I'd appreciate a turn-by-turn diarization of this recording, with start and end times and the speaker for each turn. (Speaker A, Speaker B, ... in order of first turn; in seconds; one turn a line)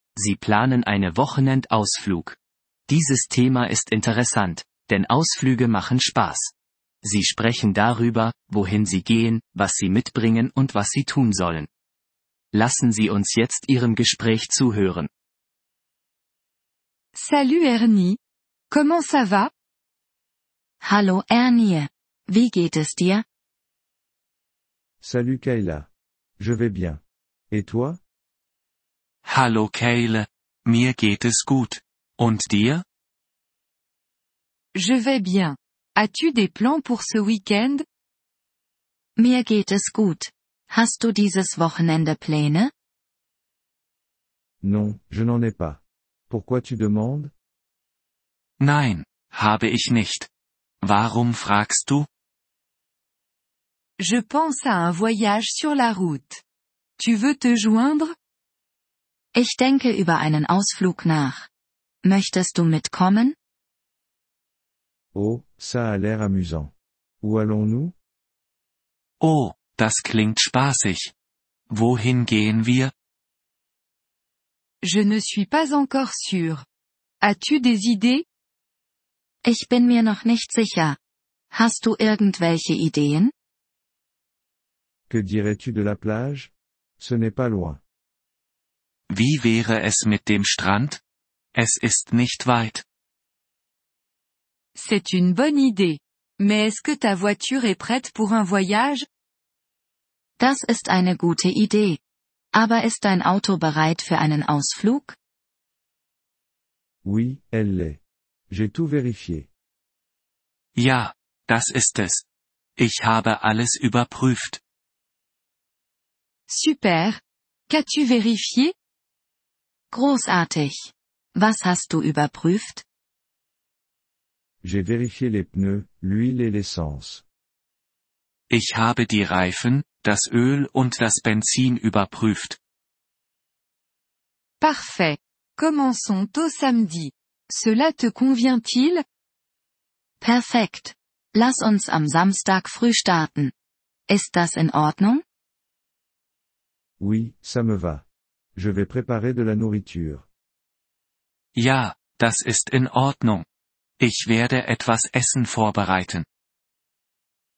Speaker A: 0.2-11.7
Speaker A: 12.5-15.1
Speaker B: 17.1-18.2
Speaker B: 18.7-19.5
Speaker C: 20.8-23.2
Speaker D: 25.0-28.0
Speaker E: 29.2-32.8
Speaker B: 34.7-37.8
Speaker C: 39.2-42.7
Speaker D: 44.6-47.3
Speaker E: 48.6-50.3
Speaker E: 50.8-52.1
Speaker B: 54.0-56.4
Speaker B: 57.0-58.1
Speaker C: 59.3-61.5
Speaker C: 62.0-63.4
Speaker D: 65.1-67.9
Speaker E: 69.2-71.1
Speaker E: 71.7-72.9
Speaker B: 74.8-76.6
Speaker B: 77.2-78.2
Speaker C: 79.4-81.0
Speaker C: 81.5-83.3
Speaker D: 85.1-87.8
Speaker E: 89.1-91.0
Speaker E: 91.5-92.8
Speaker B: 94.7-99.0
Speaker C: 100.4-102.0
Speaker C: 102.5-105.2
Speaker D: 107.0-109.5
Speaker E: 110.7-114.6
Speaker B: 116.5-118.7
Speaker C: 119.9-122.8
Speaker D: 124.6-127.2
Speaker E: 128.5-132.6
Speaker B: 134.6-139.0
Speaker C: 140.2-143.5
Speaker C: 144.1-145.2
Speaker D: 147.0-148.0
Speaker D: 148.6-150.2
Speaker E: 151.5-153.4
Speaker E: 154.0-156.2